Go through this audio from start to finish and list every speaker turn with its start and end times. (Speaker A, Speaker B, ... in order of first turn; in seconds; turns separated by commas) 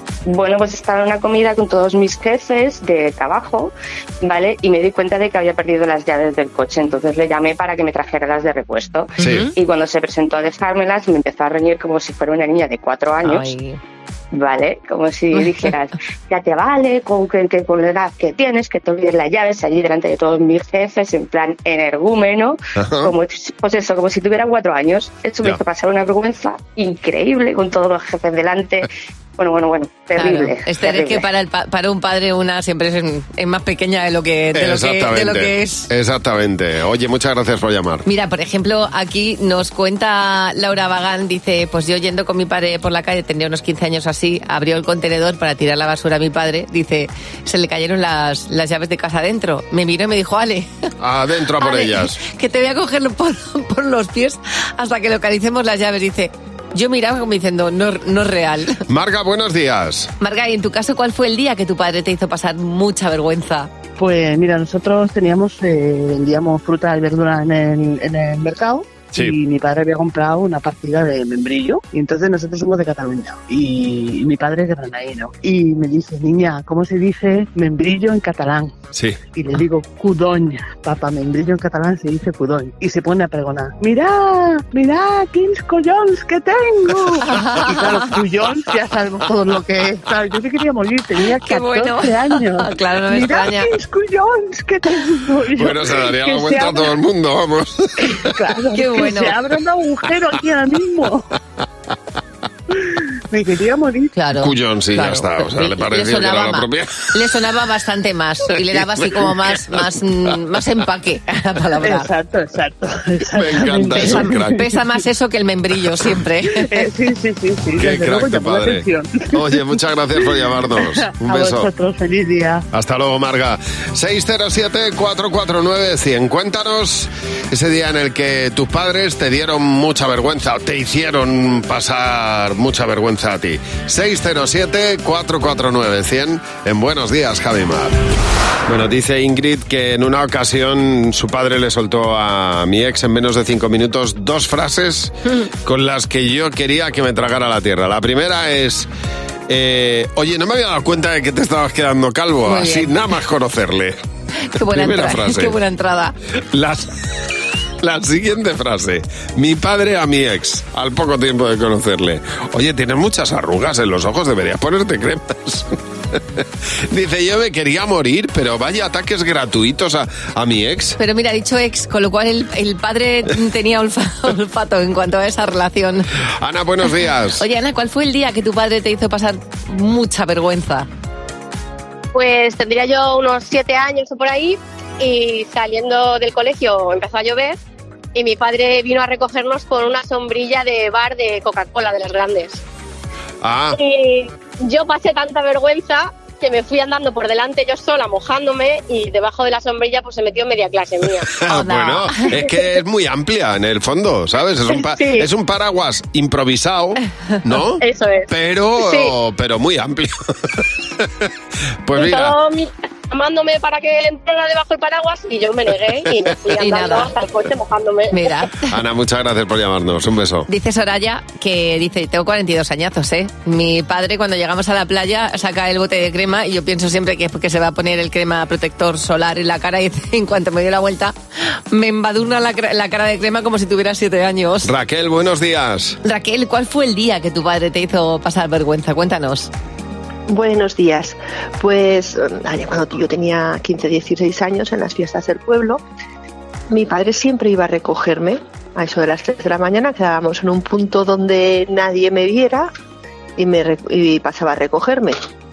Speaker A: 0.3-13.5, Speaker B: 9.2-9.5, Speaker C: 9.2-9.5, Speaker B: 13.2-13.8, Speaker A: 14.3-31.2, Speaker C: 22.8-23.1, Speaker B: 30.1-35.9, Speaker C: 34.5-38.0, Speaker B: 38.0-50.7, Speaker C: 51.0-52.2, Speaker B: 51.6-58.8, Speaker C: 58.9-60.1, Speaker B: 60.2-63.7, Speaker D: 64.0-78.7, Speaker D: 79.3-97.0, Speaker B: 87.2-88.0, Speaker B: 91.4-93.7, Speaker C: 95.5-98.4, Speaker D: 98.0-101.3, Speaker B: 98.7-99.4, Speaker D: 102.7-104.1, Speaker B: 104.1-112.1, Speaker C: 104.4-107.1, Speaker D: 111.8-114.6, Speaker C: 113.2-114.6, Speaker B: 113.9-116.9, Speaker D: 116.6-122.6, Speaker C: 117.8-121.7, Speaker C: 122.7-138.0, Speaker C: 138.7-148.9, Speaker C: 149.5-154.0, Speaker B: 152.4-152.9, Speaker B: 154.5-156.1, Speaker C: 154.6-155.6, Speaker C: 156.5-156.9, Speaker C: 157.8-171.0, Speaker B: 171.0-176.1, Speaker C: 176.4-177.4, Speaker B: 177.4-180.9, Speaker E: 182.1-187.6, Speaker E: 188.1-192.6, Speaker C: 193.4-193.8, Speaker E: 193.7-201.3, Speaker C: 201.3-211.3, Speaker B: 201.5-202.3, Speaker E: 204.7-205.3, Speaker E: 207.8-209.1, Speaker C: 211.8-212.3, Speaker E: 211.9-218.3, Speaker B: 216.6-217.1, Speaker B: 218.1-218.7, Speaker C: 218.7-220.5, Speaker B: 220.5-231.1, Speaker B: 231.7-234.7, Speaker C: 234.6-236.0, Speaker B: 236.0-239.5, Speaker F: 240.3-245.8, Speaker F: 246.7-252.7, Speaker F: 253.4-255.2